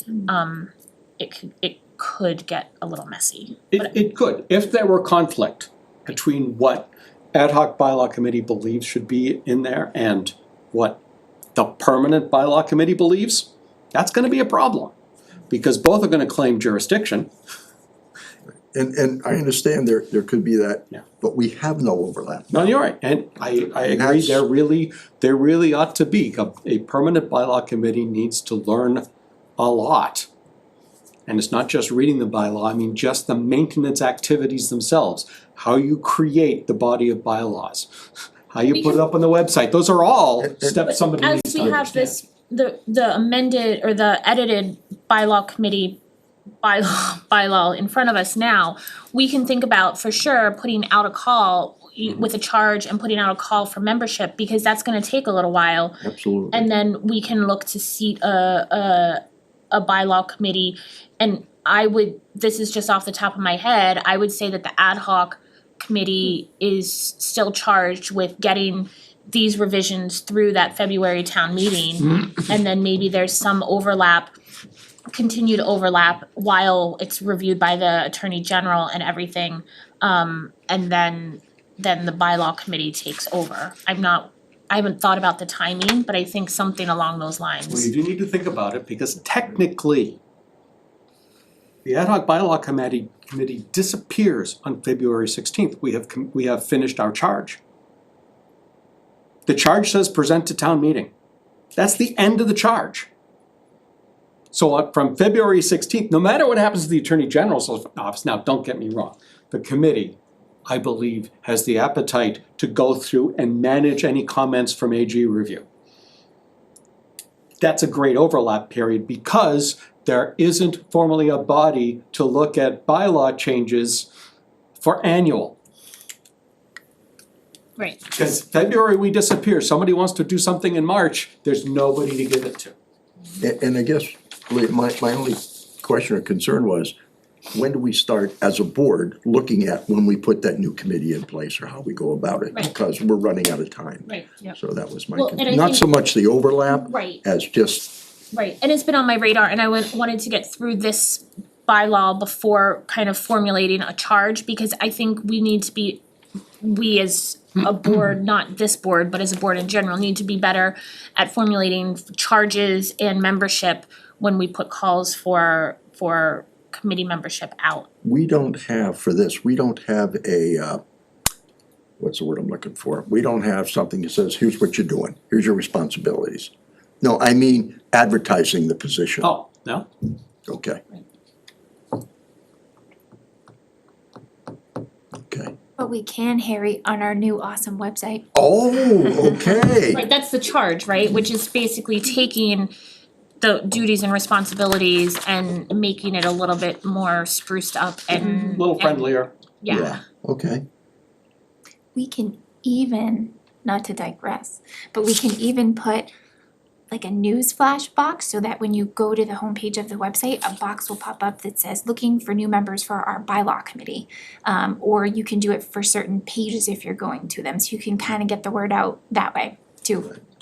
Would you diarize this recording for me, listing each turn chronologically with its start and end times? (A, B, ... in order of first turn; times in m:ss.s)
0:00.2-0:03.8 A
0:03.7-0:11.0 B
0:11.5-0:14.9 B
0:15.5-0:17.3 B
0:18.7-0:22.7 C
0:22.5-0:29.0 B
0:23.8-0:24.4 C
0:29.6-0:30.3 B
0:31.3-0:37.9 B
0:38.5-0:42.1 B
0:38.7-0:39.0 A
0:40.4-0:40.9 C
0:41.2-0:46.0 A
0:41.4-0:42.0 C
0:46.6-1:14.3 A
0:56.0-0:56.7 C
1:15.1-1:27.9 A
1:27.7-1:30.2 B
1:31.8-1:37.6 B
1:39.5-1:41.1 B
1:41.8-1:43.1 B
1:44.5-1:55.6 B
1:57.6-2:04.1 B
2:04.8-2:05.6 B
2:08.1-2:12.7 B
2:13.4-2:16.9 C
2:17.5-2:28.0 C
2:24.1-2:24.5 A
2:25.1-2:25.8 A
2:26.7-2:27.2 A
2:28.3-2:36.0 A
2:36.6-2:47.9 A
2:48.0-2:50.8 C
2:52.0-2:59.3 C
2:59.2-2:59.9 B
3:00.5-3:00.8 C
3:05.2-3:05.5 C
3:05.8-3:08.2 D
3:08.3-3:10.0 C
3:09.1-3:09.4 A
3:09.9-3:12.7 A
3:13.4-3:19.1 A
3:18.1-3:19.3 B
3:19.6-3:20.0 A
3:19.7-3:20.6 C
3:22.0-3:26.1 D
3:26.9-3:40.2 D